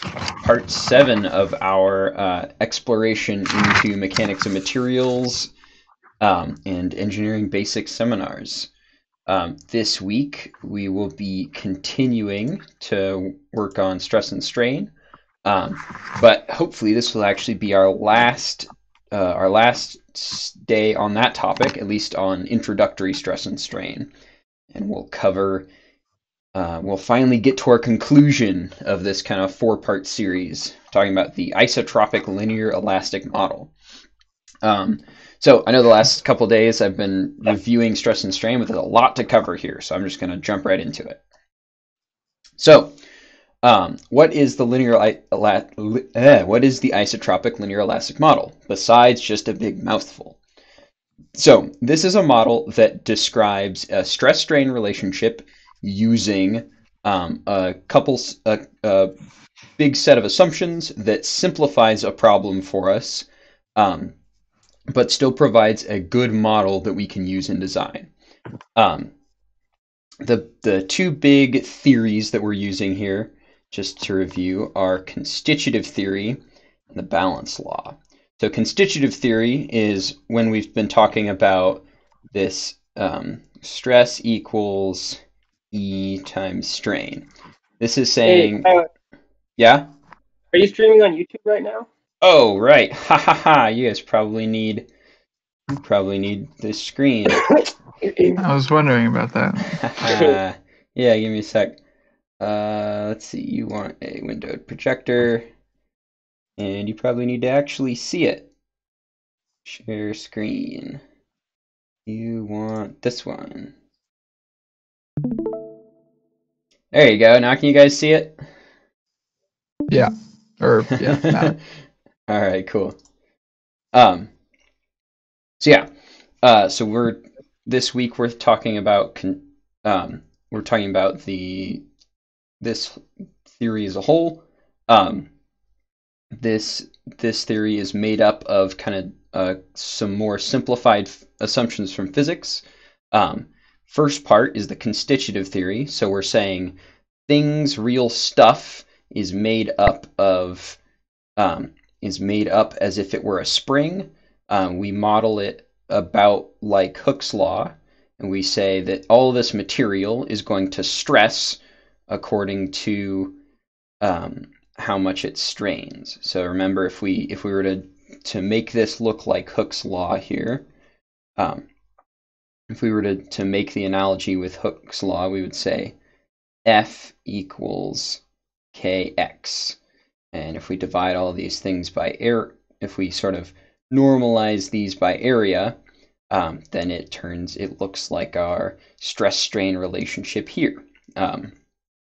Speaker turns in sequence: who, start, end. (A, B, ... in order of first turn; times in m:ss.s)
0:00.4-0:05.5 A
0:06.2-0:08.7 A
0:09.3-0:14.9 A
0:15.4-0:24.1 A
0:24.7-0:25.7 A
0:26.5-0:33.7 A
0:34.6-0:41.2 A
0:42.6-0:42.9 A
0:43.6-0:50.4 A
0:51.4-0:59.1 A
0:59.8-1:04.1 A
1:04.9-1:08.1 A
1:08.8-1:09.1 A
1:10.2-1:16.4 A
1:16.9-1:25.2 A
1:25.7-1:27.3 A
1:27.8-1:28.7 A
1:28.2-1:28.8 B
1:29.6-1:29.9 A
1:30.5-1:31.9 B
1:32.2-1:34.8 A
1:35.8-1:37.4 A
1:38.0-1:38.4 B
1:38.3-1:39.8 C
1:39.7-1:41.8 A
1:42.4-1:45.4 A
1:46.6-1:48.5 A
1:49.6-1:51.0 A
1:52.0-1:53.7 A
1:56.9-1:58.4 A
1:59.9-2:01.5 C
2:00.9-2:01.6 A
2:02.3-2:03.0 A
2:03.9-2:04.3 A
2:05.6-2:05.9 A
2:06.4-2:11.8 A
2:12.6-2:15.3 A
2:16.3-2:26.8 A
2:27.3-2:30.8 A
2:31.4-2:41.6 A
2:42.1-2:43.4 A
2:44.0-2:50.6 A
2:51.4-2:51.6 A
2:52.7-2:55.9 A
2:56.6-2:58.2 A
2:58.7-2:59.8 A
3:00.3-3:05.8 A
3:06.3-3:11.5 A